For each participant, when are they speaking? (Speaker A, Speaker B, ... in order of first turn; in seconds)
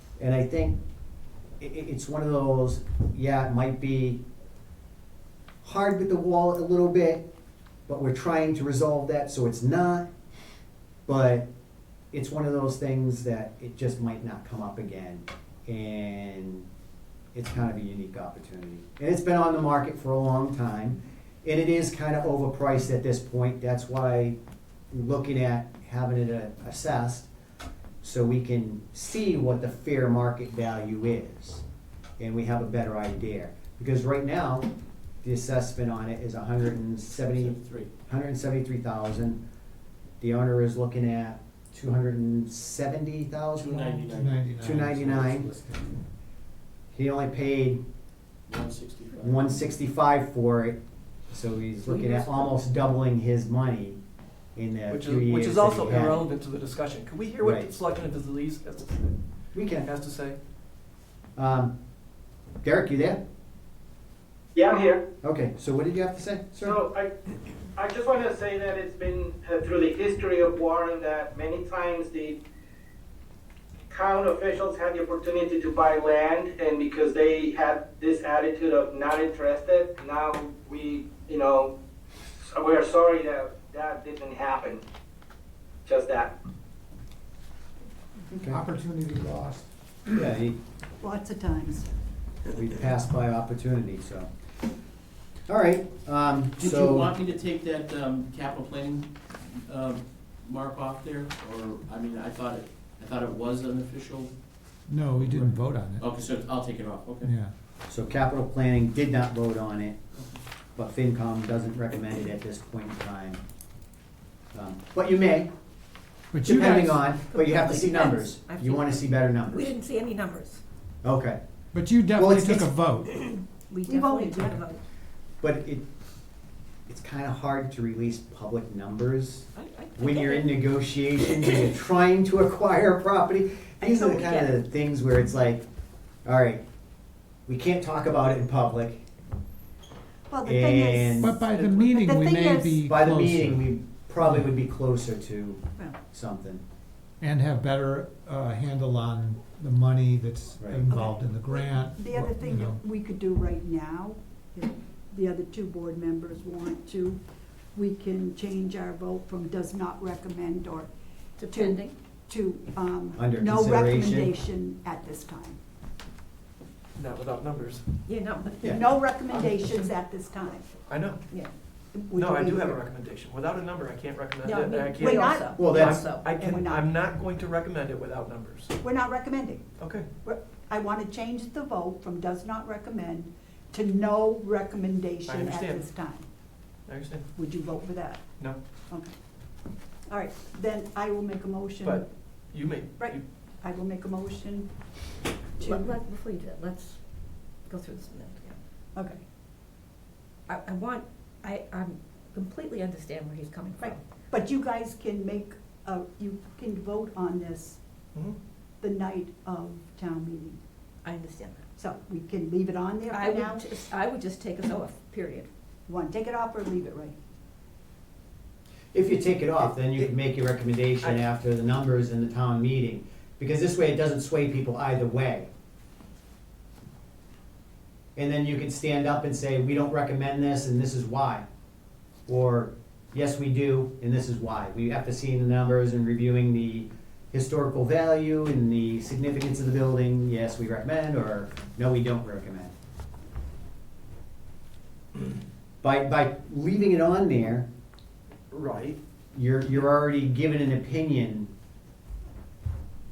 Speaker A: 0.2-0.8, 1.6-4.2, 5.6-7.3, 7.9-10.1, 11.1-11.5, 12.1-16.7, 17.3-24.4, 24.9-27.3, 28.0-31.6, 32.2-34.7, 35.2-37.6, 38.1-39.4, 40.2-44.0, 44.6-45.5, 46.9-47.8, 49.2-50.8, 51.3-54.0, 54.5-56.2, 57.4-57.8, 59.5-59.9, 61.4-61.7, 62.6-63.2, 65.2-66.8, 88.3-88.6, 90.1-90.6, 92.5-94.3, 95.5-97.1, 107.9-110.0, 110.8-113.4, 114.5-115.5, 116.4-119.8, 121.0-121.4, 122.2-122.7, 125.4-125.8, 126.9-135.7, 136.2-136.6, 137.5-139.0, 140.4-141.4, 142.8-146.6, 150.6-150.9, 163.2-164.3, 175.6-176.0, 218.9-225.5, 228.2-231.4, 232.3-242.7, 245.8-247.7, 249.3-251.5
Speaker B: 37.2-37.9, 43.5-45.3, 48.5-49.5, 96.6-104.3, 105.2-107.4
Speaker C: 44.0-45.9, 88.5-89.7, 104.9-106.1, 107.2-107.5, 116.3-117.2, 121.7-123.1, 141.2-143.7, 144.2-144.5, 147.2-152.8
Speaker D: 54.9-59.2, 59.8-60.4, 167.0-167.9, 170.9-171.2, 172.1-178.8, 179.8-180.1, 185.3-185.8, 186.9-187.3, 191.8-193.2, 248.5-249.0
Speaker E: 64.5-65.0, 66.6-67.1, 67.8-72.4, 73.9-81.7, 82.4-84.8, 85.8-86.3
Speaker F: 91.0-91.9, 123.9-124.6, 133.8-134.5, 140.3-142.8, 150.9-157.2, 157.7-160.9, 161.5-165.6, 168.6-170.7, 171.9-172.8, 175.0-176.9, 178.8-179.6, 180.2-186.3, 187.4-188.2, 190.1-192.1, 193.0-194.7, 195.6-195.9, 198.9-199.2, 203.8-207.8, 208.8-210.6, 211.8-213.7, 215.9-217.2
Speaker G: 116.6-120.6, 123.1-124.8, 129.5-130.6, 161.4-161.9, 168.1-169.9, 174.4-176.3, 195.6-198.6, 200.5-204.0, 211.0-211.6, 213.1-215.5